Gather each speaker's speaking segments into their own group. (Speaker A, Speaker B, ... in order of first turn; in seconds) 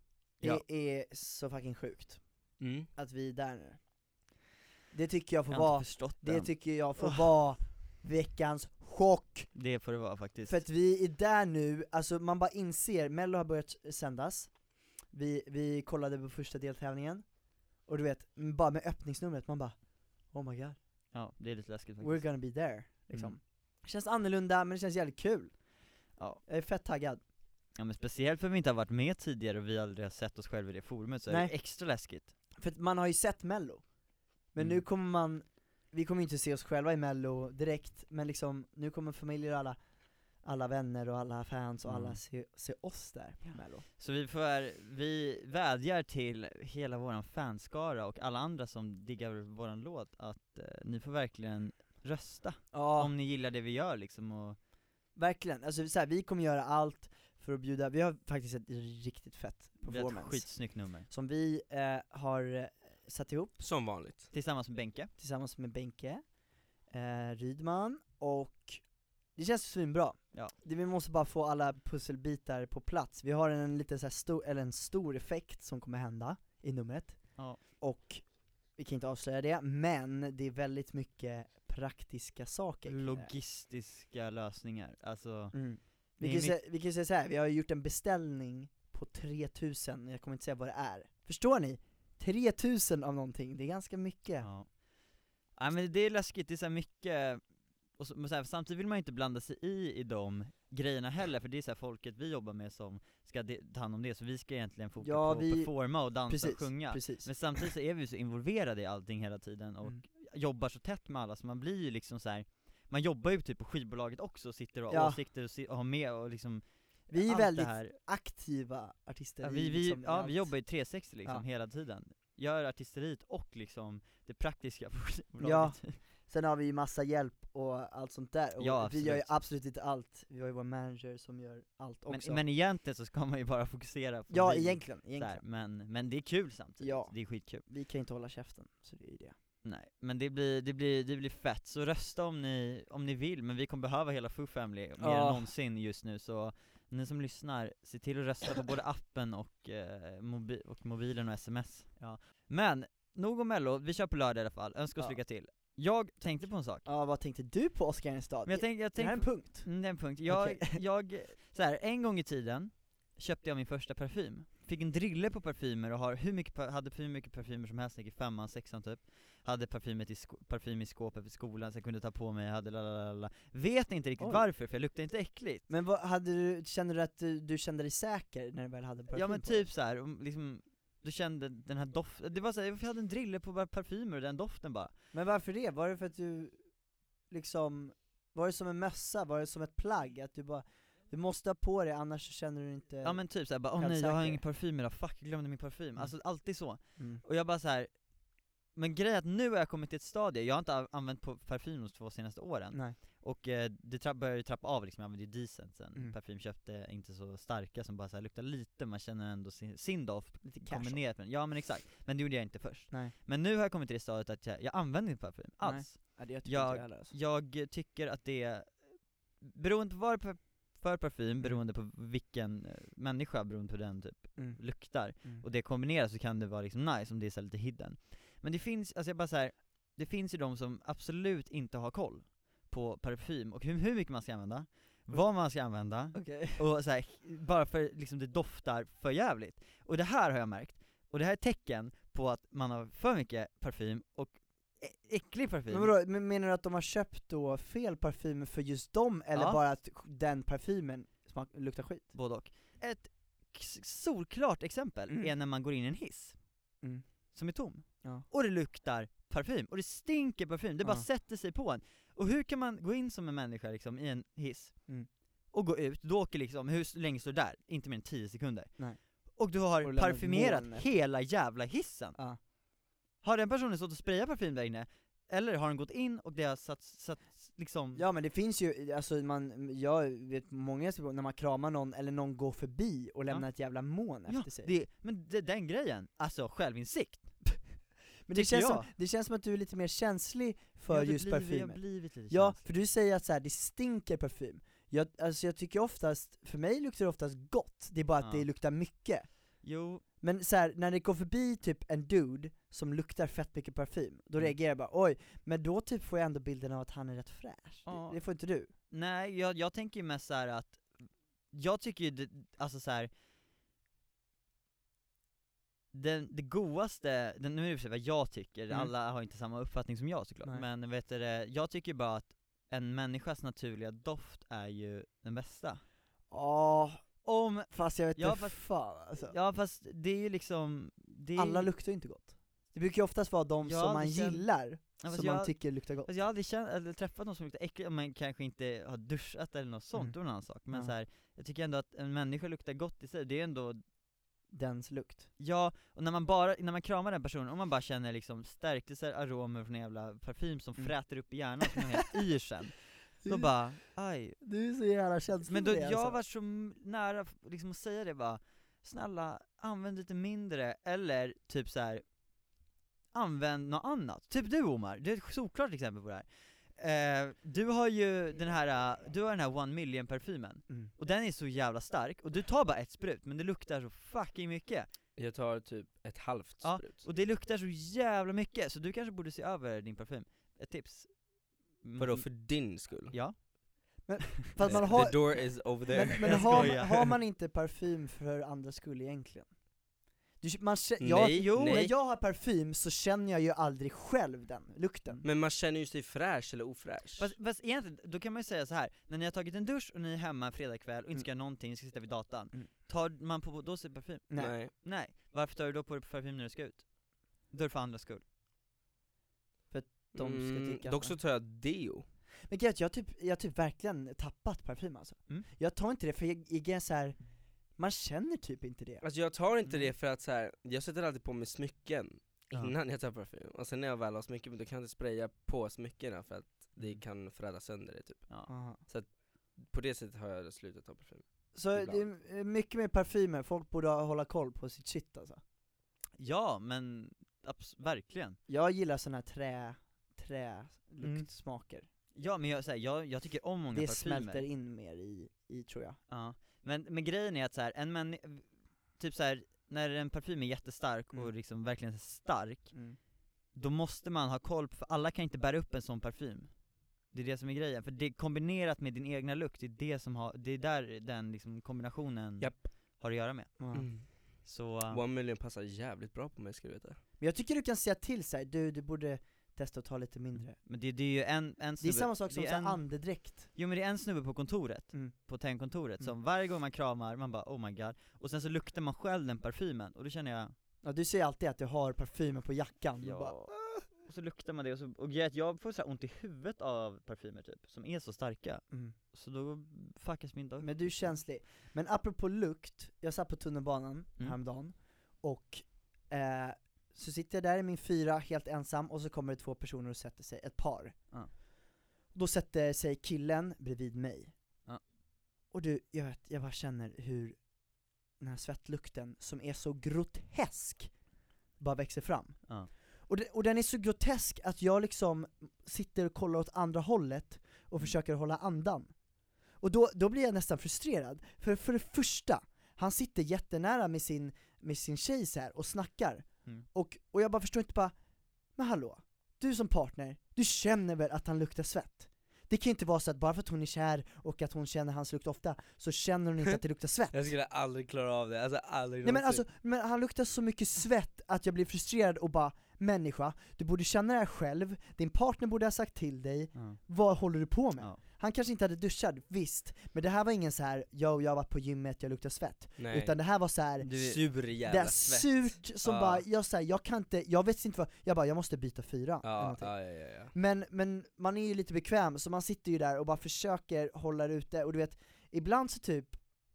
Speaker A: 0.4-2.2, 3.0-3.8, 4.9-9.5, 10.4-17.3, 17.8-19.8, 20.3-20.8, 22.0-25.6, 26.5-27.2, 31.3-31.5, 32.6-33.8, 34.5-39.8, 40.4-43.9, 52.7-53.1, 55.1-63.6, 65.2-66.2, 66.9-83.3, 85.5-94.5, 105.0-107.6, 114.9-115.2, 117.1-120.5, 125.4-132.4, 134.3-135.4, 136.8-139.3, 145.0-145.5, 156.8-160.8, 174.2-174.4, 175.7-179.7, 185.1-186.7, 187.3-194.4, 196.9-197.2, 202.7-203.0, 210.4-211.0, 215.6-217.1, 225.1-225.4, 236.1-236.6, 245.7-252.1, 269.8-270.9, 277.9-284.7, 288.3-299.3, 300.2-308.7, 326.3-327.0, 327.7-329.4, 331.4-336.1, 344.5-345.3, 354.4-356.2, 384.0-385.2, 385.8-389.5, 390.4-395.2, 404.3-404.6, 409.7-411.2, 412.5-417.2, 417.8-419.0, 428.5-428.8, 431.5-435.4, 438.5-441.9, 443.7-446.0, 452.7-453.0, 463.6-463.9, 467.2-470.6, 471.8-473.5, 480.8-483.9, 490.6-501.0, 502.1-504.4, 505.5-507.4, 508.2-510.9, 511.6-512.5, 513.1-518.9, 519.6-527.9, 528.5-537.2, 539.0-553.9, 554.6-559.8, 560.3-566.2
Speaker B: 2.6-2.9, 63.6-64.3, 375.2-377.0, 382.0-383.1, 384.6-386.8, 391.0-391.9, 395.2-397.3, 404.4-404.7, 410.1-412.0, 419.0-428.3, 428.9-432.0, 463.7-464.1, 464.9-467.0, 537.1-539.4, 552.8-553.1, 554.0-556.2, 559.2-560.3
Speaker C: 5.5-7.3, 9.5-10.6, 21.1-22.3, 23.1-23.4, 26.2-26.4, 27.8-32.3, 41.8-42.2, 43.4-54.6, 59.9-61.1, 64.3-65.1, 82.8-85.6, 86.2-86.6, 94.4-94.7, 95.6-97.4, 98.0-117.9, 119.4-126.0, 128.6-129.3, 132.1-137.7, 139.6-156.9, 158.4-175.7, 179.1-184.9, 193.0-197.9, 198.7-245.9, 249.3-249.6, 252.1-256.4, 257.3-264.7, 265.5-268.7, 269.3-272.2, 273.2-278.0, 284.3-287.3, 288.3-288.9, 290.9-292.6, 299.6-300.0, 307.9-308.2, 308.9-311.0, 311.5-313.1, 315.9-325.8, 327.2-328.6, 329.3-331.7, 333.6-334.4, 335.0-343.8, 345.4-354.4, 355.4-362.0, 363.1-366.2, 366.8-374.9, 376.6-381.2, 381.8-382.2, 383.1-383.4, 384.6-385.0, 386.2-387.1, 391.3-391.9, 397.2-408.2, 436.2-438.4, 441.0-441.3, 442.1-444.4, 446.1-452.7, 453.5-456.5, 457.1-463.6, 464.4-465.0, 470.6-480.5, 483.0-490.9, 553.8-554.2